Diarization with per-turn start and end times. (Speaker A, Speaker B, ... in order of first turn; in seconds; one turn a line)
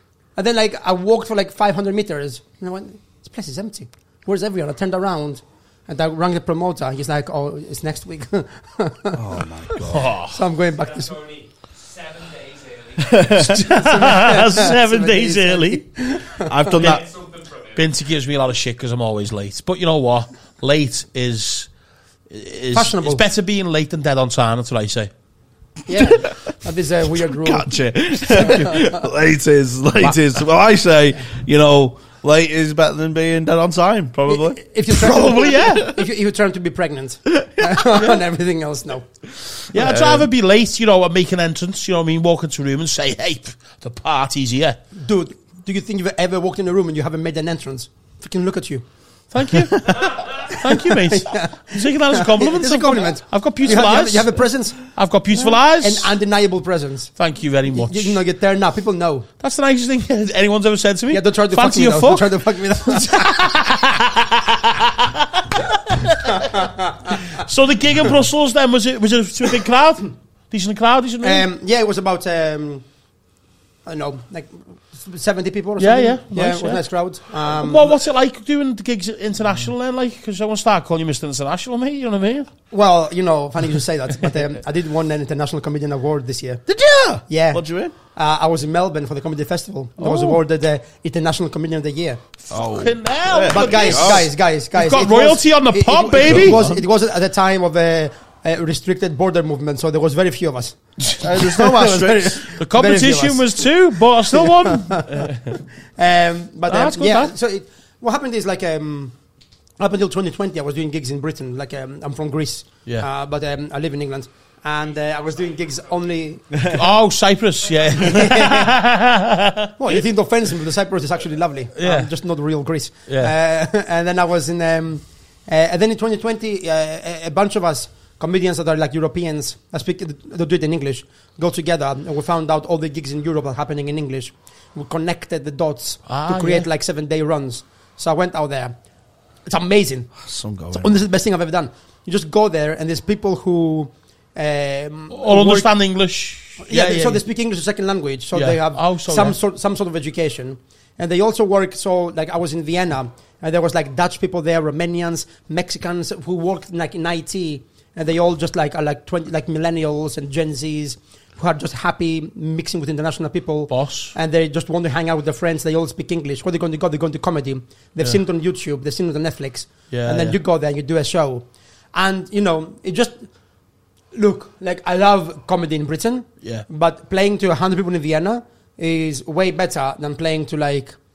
Speaker A: 0.3-11.2
Speaker B: 9.1-10.1
Speaker C: 9.8-10.4
Speaker D: 10.7-13.5
Speaker B: 13.0-13.7
Speaker C: 13.4-15.8
Speaker A: 13.7-16.6
Speaker B: 16.4-17.1
Speaker D: 16.7-17.9
Speaker C: 16.7-17.0
Speaker C: 17.7-21.7
Speaker C: 22.3-25.1
Speaker A: 22.7-23.2
Speaker A: 25.9-27.7
Speaker B: 26.0-26.4
Speaker B: 27.3-36.0
Speaker A: 28.2-29.0
Speaker A: 34.3-39.1
Speaker C: 34.9-35.9
Speaker B: 37.4-37.8
Speaker B: 39.7-40.3
Speaker C: 39.7-44.8
Speaker A: 45.0-48.8
Speaker C: 49.3-54.3
Speaker A: 50.4-57.1
Speaker C: 54.9-56.1
Speaker C: 57.1-58.2
Speaker A: 57.7-59.3
Speaker C: 59.4-66.7
Speaker A: 61.1-63.5
Speaker A: 66.4-67.1
Speaker C: 67.2-71.4
Speaker A: 71.2-72.8
Speaker A: 73.8-78.0
Speaker C: 75.8-76.8
Speaker C: 77.4-82.5
Speaker A: 82.7-86.6
Speaker B: 86.7-87.9
Speaker A: 87.3-92.2
Speaker C: 90.0-90.4
Speaker C: 92.5-96.6
Speaker B: 92.5-94.3
Speaker A: 93.5-103.6
Speaker B: 96.2-96.8
Speaker B: 101.0-102.5
Speaker C: 102.5-105.6
Speaker A: 104.3-105.3
Speaker A: 106.0-109.2
Speaker C: 106.7-107.3
Speaker A: 109.8-116.6
Speaker D: 115.2-115.5
Speaker B: 116.5-116.8
Speaker C: 116.7-119.7
Speaker D: 117.8-118.0
Speaker A: 118.0-118.7
Speaker A: 119.8-138.7
Speaker C: 121.8-122.1
Speaker C: 123.1-123.3
Speaker C: 136.1-136.7
Speaker A: 139.4-140.1
Speaker B: 140.2-141.0
Speaker A: 140.7-145.7
Speaker C: 145.1-147.2
Speaker A: 146.6-173.3
Speaker C: 148.3-149.4
Speaker C: 163.7-164.1
Speaker C: 169.9-170.4
Speaker A: 174.1-181.0